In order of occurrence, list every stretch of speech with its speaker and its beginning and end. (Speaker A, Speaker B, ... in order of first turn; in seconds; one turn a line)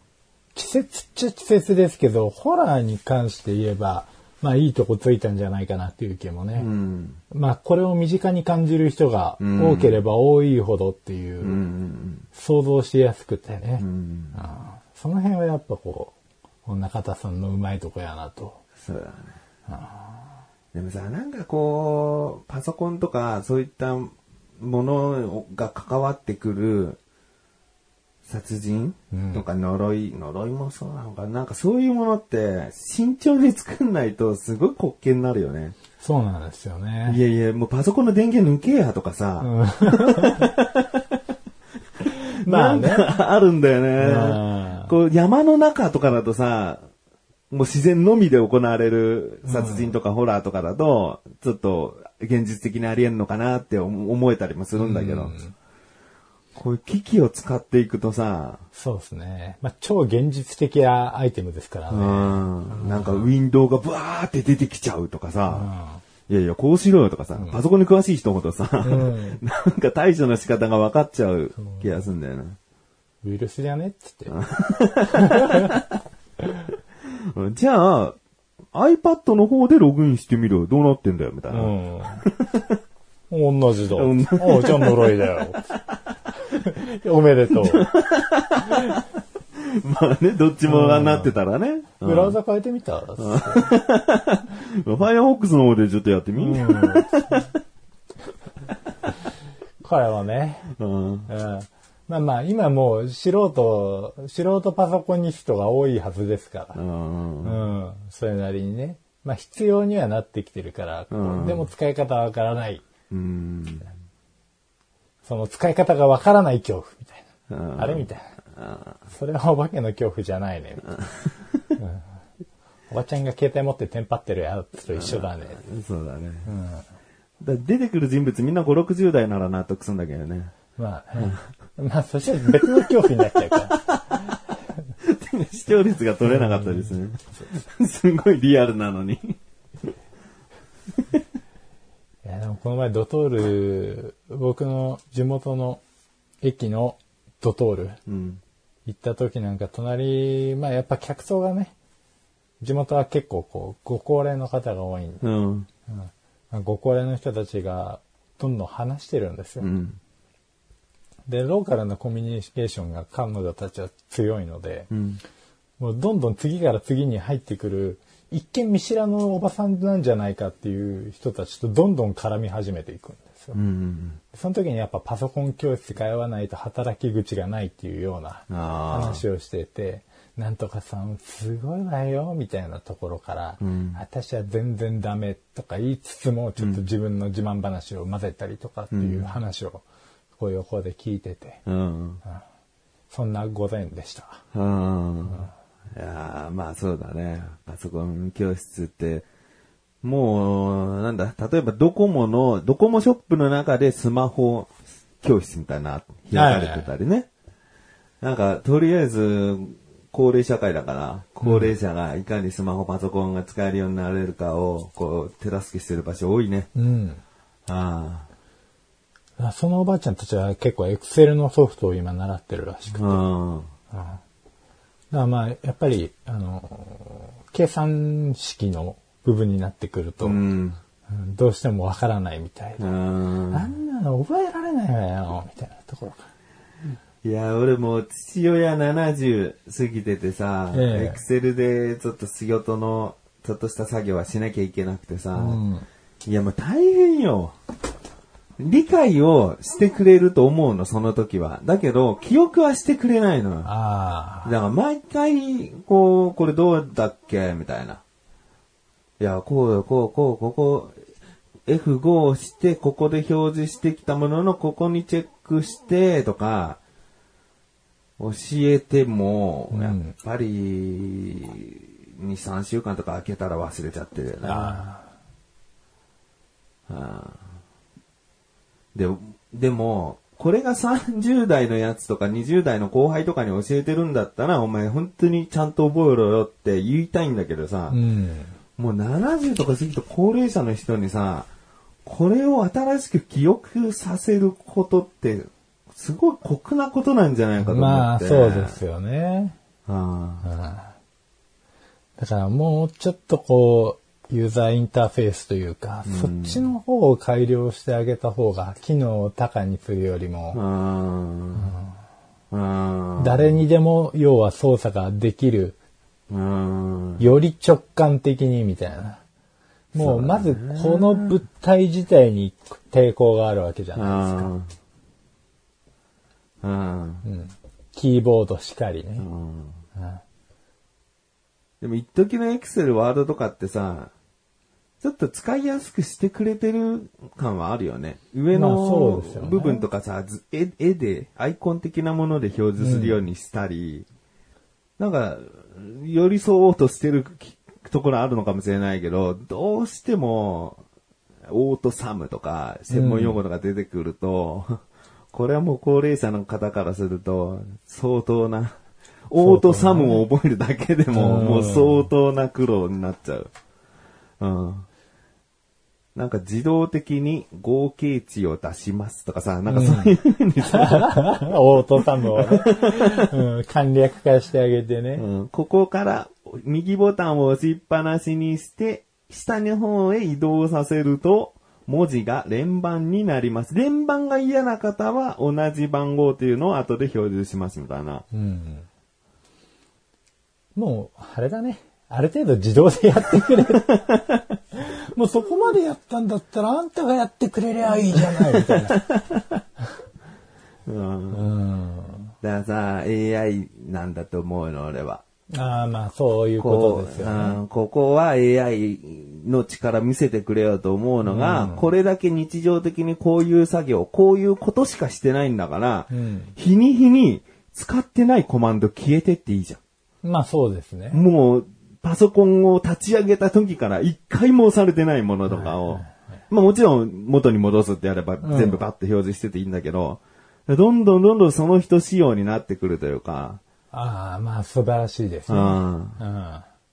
Speaker A: 0.5-6.7
Speaker B: 6.6-7.2
Speaker A: 7.3-11.6
Speaker B: 9.4-10.0
Speaker B: 11.4-12.2
Speaker A: 12.3-18.6
Speaker B: 13.8-14.4
Speaker B: 18.8-19.4
Speaker A: 19.7-20.2
Speaker B: 20.7-27.0
Speaker B: 28.2-35.8
Speaker A: 29.1-29.4
Speaker A: 36.0-37.2
Speaker B: 37.0-41.2
Speaker A: 39.4-40.5
Speaker B: 42.0-46.8
Speaker A: 42.1-43.1
Speaker A: 44.0-44.9
Speaker B: 47.5-55.3
Speaker A: 49.4-49.9
Speaker A: 54.8-55.5
Speaker B: 56.5-58.6
Speaker A: 58.7-63.3
Speaker B: 61.9-65.7
Speaker A: 65.5-66.0
Speaker B: 66.3-72.6
Speaker A: 68.8-69.4
Speaker A: 71.6-72.1
Speaker A: 73.2-74.4
Speaker B: 74.3-75.8
Speaker A: 75.1-75.8
Speaker B: 77.2-78.2
Speaker B: 78.7-82.8
Speaker A: 81.5-82.2
Speaker A: 83.3-85.6
Speaker B: 83.9-85.4
Speaker A: 86.5-87.9
Speaker B: 87.5-89.0
Speaker B: 89.5-92.3
Speaker A: 90.7-91.3
Speaker A: 92.0-93.7
Speaker B: 93.2-97.5
Speaker A: 96.4-97.4
Speaker A: 99.8-100.7
Speaker B: 100.8-101.3
Speaker A: 101.3-106.8
Speaker B: 106.7-107.6
Speaker A: 107.4-112.8
Speaker B: 111.1-111.7
Speaker B: 113.1-113.9
Speaker A: 115.2-118.3
Speaker B: 117.5-119.0
Speaker A: 119.1-120.9
Speaker A: 121.8-122.0
Speaker A: 122.9-125.6
Speaker B: 124.9-126.5
Speaker A: 126.5-126.8
Speaker B: 127.4-130.5
Speaker A: 130.8-134.3
Speaker B: 131.2-131.4
Speaker B: 132.4-132.9
Speaker B: 133.7-134.2
Speaker B: 135.0-139.4
Speaker A: 136.3-136.9
Speaker A: 142.2-145.8
Speaker A: 146.4-148.0
Speaker B: 148.1-148.4
Speaker A: 148.8-151.7
Speaker A: 152.6-155.2
Speaker B: 155.2-155.7
Speaker A: 155.9-159.7
Speaker B: 159.6-160.0
Speaker A: 161.3-164.9
Speaker B: 164.9-165.2
Speaker A: 165.8-173.6
Speaker B: 173.5-174.2
Speaker A: 174.3-189.8
Speaker B: 178.5-179.2
Speaker B: 183.6-184.0
Speaker B: 186.6-186.8
Speaker B: 188.9-189.3
Speaker A: 190.4-191.6
Speaker B: 191.7-192.2
Speaker A: 193.1-194.4
Speaker B: 194.5-199.2
Speaker B: 200.0-204.7
Speaker B: 205.2-207.3
Speaker A: 206.3-206.9
Speaker B: 208.2-216.7
Speaker A: 211.4-211.7
Speaker A: 216.7-217.2
Speaker B: 217.7-218.3
Speaker A: 219.4-223.2
Speaker B: 222.9-223.7
Speaker A: 223.9-224.2
Speaker A: 225.1-230.4
Speaker B: 230.2-230.8
Speaker A: 231.1-232.9
Speaker B: 232.8-233.7
Speaker A: 233.5-236.3
Speaker B: 237.2-245.6
Speaker A: 240.7-241.2
Speaker A: 245.3-245.8
Speaker B: 246.2-247.5
Speaker B: 248.6-253.7
Speaker A: 253.6-254.5
Speaker B: 254.4-258.0
Speaker B: 259.2-260.9
Speaker B: 261.6-266.8
Speaker B: 268.2-274.8
Speaker A: 269.7-270.1
Speaker A: 274.4-275.1
Speaker B: 276.9-277.4
Speaker B: 278.9-288.0
Speaker A: 287.9-288.5
Speaker B: 288.8-291.5
Speaker B: 292.0-298.8
Speaker A: 297.6-299.6
Speaker B: 299.9-300.4
Speaker A: 300.4-300.9
Speaker A: 302.2-310.6
Speaker B: 306.0-306.7
Speaker B: 310.5-311.7
Speaker A: 311.6-311.9
Speaker B: 312.5-313.6
Speaker A: 313.2-315.8
Speaker B: 316.3-317.2
Speaker A: 317.2-319.2
Speaker B: 319.9-321.4
Speaker A: 319.9-324.5
Speaker B: 323.9-324.7
Speaker B: 326.6-327.2
Speaker A: 327.2-329.3
Speaker B: 329.2-329.8
Speaker A: 329.9-330.2
Speaker B: 331.8-334.1
Speaker B: 335.0-344.1
Speaker A: 338.5-339.8
Speaker A: 342.8-343.2
Speaker B: 345.0-350.8
Speaker B: 351.5-354.8
Speaker A: 352.9-353.4
Speaker B: 355.3-358.8
Speaker B: 359.3-363.5
Speaker A: 359.4-360.2
Speaker A: 361.1-362.1
Speaker B: 364.4-364.9
Speaker B: 366.1-371.5
Speaker A: 369.7-375.2
Speaker B: 372.3-373.3
Speaker B: 375.2-388.2
Speaker A: 388.3-388.9
Speaker A: 390.7-394.0
Speaker B: 393.7-394.6
Speaker A: 394.7-399.0
Speaker B: 398.2-399.6
Speaker B: 400.9-401.4
Speaker A: 401.3-402.3
Speaker B: 402.4-405.2
Speaker A: 405.5-407.6
Speaker B: 406.6-419.8
Speaker A: 411.2-411.9
Speaker A: 416.1-416.5
Speaker A: 420.2-421.2
Speaker B: 421.1-433.6
Speaker A: 425.5-426.2
Speaker A: 428.4-428.8
Speaker A: 433.9-436.7
Speaker B: 435.5-436.2